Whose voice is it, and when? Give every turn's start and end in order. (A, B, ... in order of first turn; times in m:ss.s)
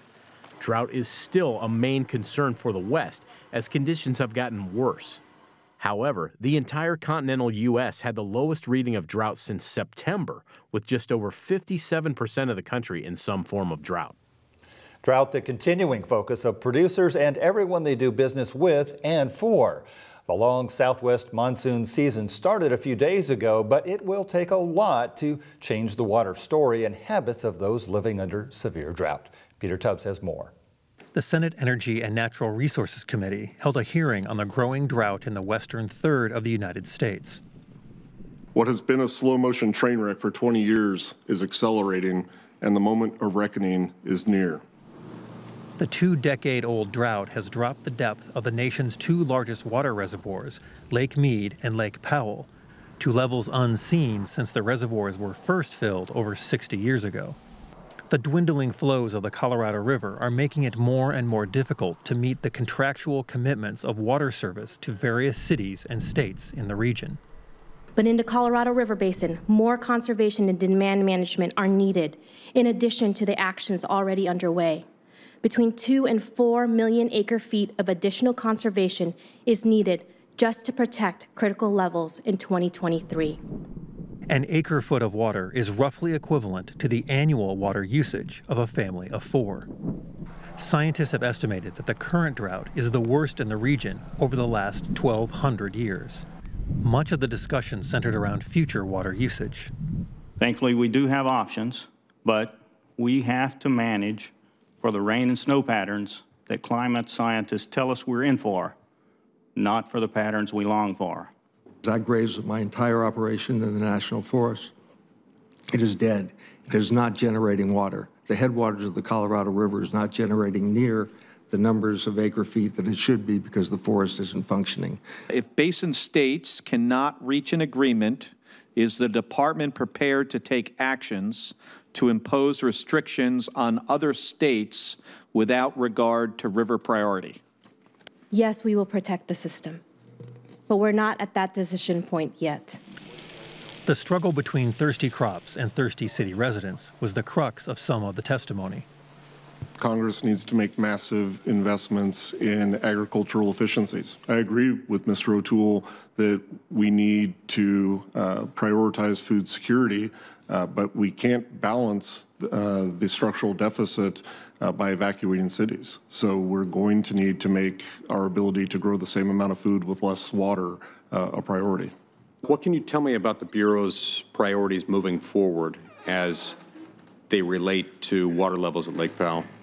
0:00.6-0:05.2 A
0:05.8-0:14.2 A
0:15.0-0:30.5 B
0:31.1-0:37.4 C
0:38.6-0:44.6 D
0:45.8-0:57.4 C
0:58.1-1:07.2 C
1:08.0-1:14.9 E
1:15.4-1:23.4 E
1:24.3-1:29.7 C
1:30.6-1:36.3 C
1:36.8-1:39.7 C
1:40.4-1:48.8 F
1:49.6-1:51.3 F
1:51.8-1:54.7 G
1:55.7-2:05.0 G
2:05.3-2:17.4 H
2:07.2-2:08.3 I
2:18.3-2:19.8 E
2:20.7-2:22.8 E
2:23.8-2:28.9 C
2:29.8-2:51.9 D
2:52.4-2:56.6 I
2:57.3-2:59.5 I